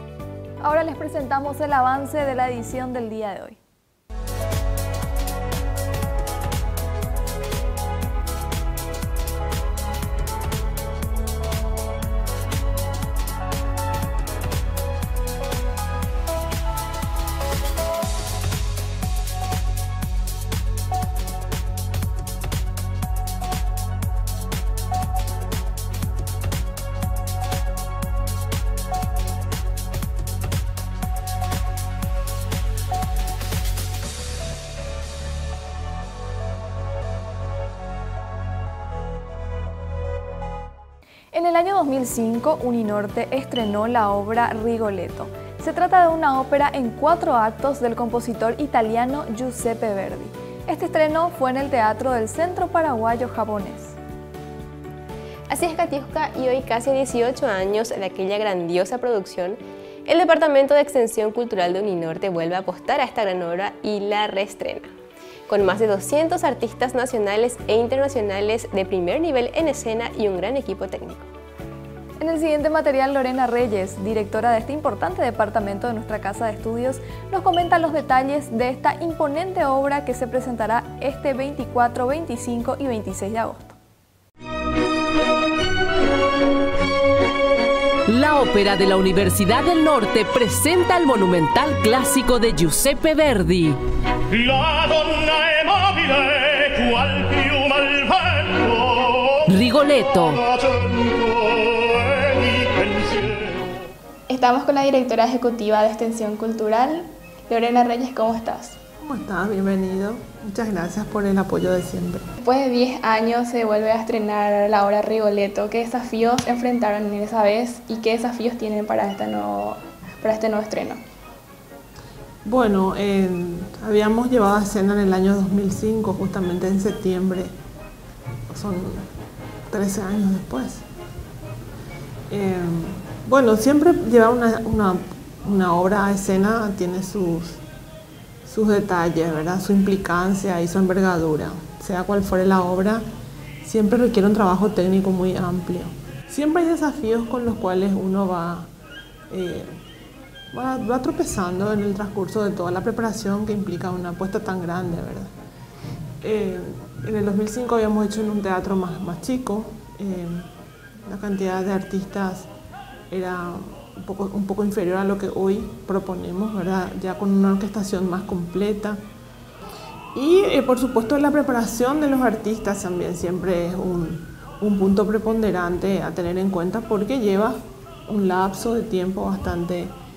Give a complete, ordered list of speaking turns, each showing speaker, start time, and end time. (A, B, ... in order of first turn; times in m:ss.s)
0:00.6-0:03.6 A
0:41.3-0:54.0 A
0:55.5-1:04.9 B
1:05.5-1:11.3 B
1:12.2-1:23.8 A
1:28.1-1:33.8 C
1:39.4-1:40.4 C
1:44.3-1:48.8 D
1:49.0-1:52.3 E
1:52.4-2:01.0 D
2:02.4-2:07.5 E
2:08.5-2:09.1 E
2:09.7-2:10.8 E
2:12.3-2:17.6 E
2:18.4-2:23.0 E
2:23.6-2:28.7 E
2:29.3-2:29.7 E
2:30.5-2:35.3 E
2:36.2-2:40.5 E
2:41.0-2:42.5 E
2:43.1-2:49.0 E
2:50.1-2:59.9 E